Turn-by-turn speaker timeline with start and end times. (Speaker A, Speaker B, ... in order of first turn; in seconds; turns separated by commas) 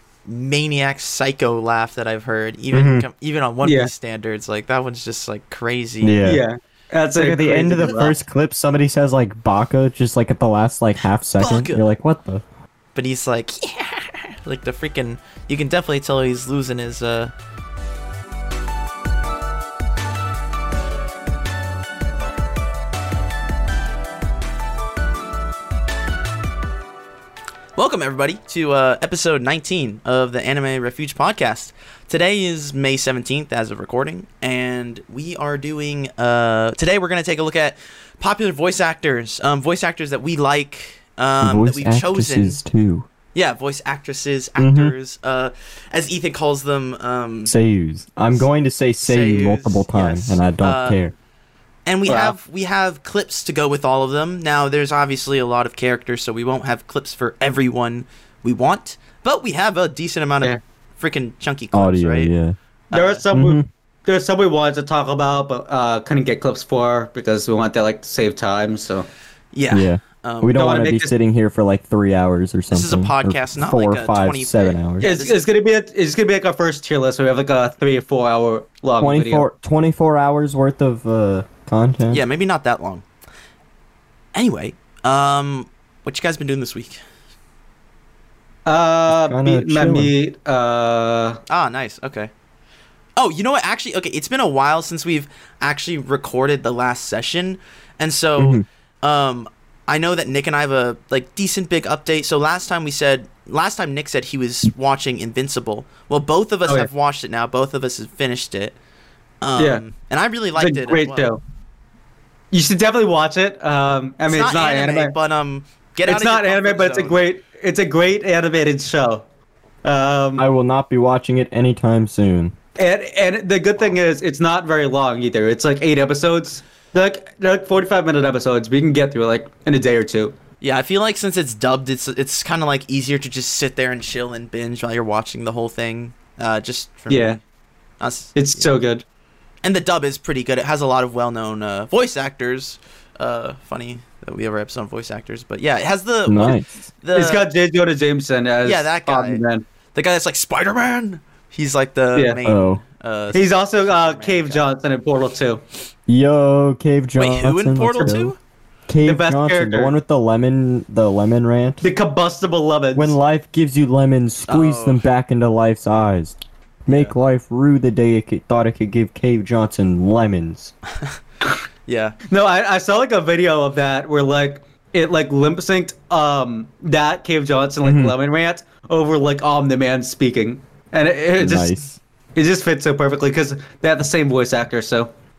Speaker A: 0.3-6.2, Speaker B: 2.7-3.1, Speaker C: 3.6-3.9, Speaker B: 6.0-6.4, Speaker C: 6.2-8.2, Speaker B: 7.2-12.4, Speaker A: 11.4-11.9, Speaker A: 12.9-17.3, Speaker A: 27.8-42.6, Speaker B: 41.4-43.1, Speaker A: 43.3-47.5, Speaker B: 44.6-45.0, Speaker B: 47.5-51.1, Speaker A: 49.0-51.0, Speaker A: 51.9-62.3, Speaker C: 52.1-52.4, Speaker B: 61.7-62.6, Speaker A: 62.9-63.2, Speaker C: 62.9-69.1, Speaker B: 63.3-63.7, Speaker A: 69.5-70.6, Speaker B: 69.7-75.1, Speaker C: 70.5-71.1, Speaker A: 72.7-75.5, Speaker C: 75.0-79.4, Speaker B: 79.0-82.2, Speaker A: 82.1-83.0, Speaker A: 84.3-87.0, Speaker C: 88.7-91.4, Speaker B: 89.1-90.1, Speaker A: 91.5-92.3, Speaker A: 93.2-108.8, Speaker B: 98.4-98.7, Speaker A: 109.4-111.3, Speaker C: 109.6-109.8, Speaker C: 110.5-111.4, Speaker C: 112.5-115.2, Speaker A: 114.3-117.2, Speaker C: 116.1-119.2, Speaker C: 119.8-120.5, Speaker B: 120.4-122.5, Speaker C: 122.8-130.3, Speaker A: 130.6-137.4, Speaker C: 137.1-137.4, Speaker A: 138.0-138.7, Speaker C: 138.3-139.0, Speaker A: 139.6-147.5, Speaker B: 146.3-146.7, Speaker C: 147.1-149.6, Speaker A: 148.6-149.4, Speaker A: 149.9-154.6, Speaker C: 152.2-152.4, Speaker B: 152.4-152.8, Speaker C: 153.3-155.6, Speaker B: 156.1-158.3, Speaker A: 157.2-158.4, Speaker B: 158.9-161.9, Speaker C: 159.0-159.9, Speaker C: 161.8-163.2, Speaker B: 162.9-170.7, Speaker A: 164.5-165.1, Speaker A: 171.9-172.2, Speaker C: 172.3-181.8, Speaker B: 177.8-178.2, Speaker B: 181.4-182.0, Speaker C: 182.3-185.1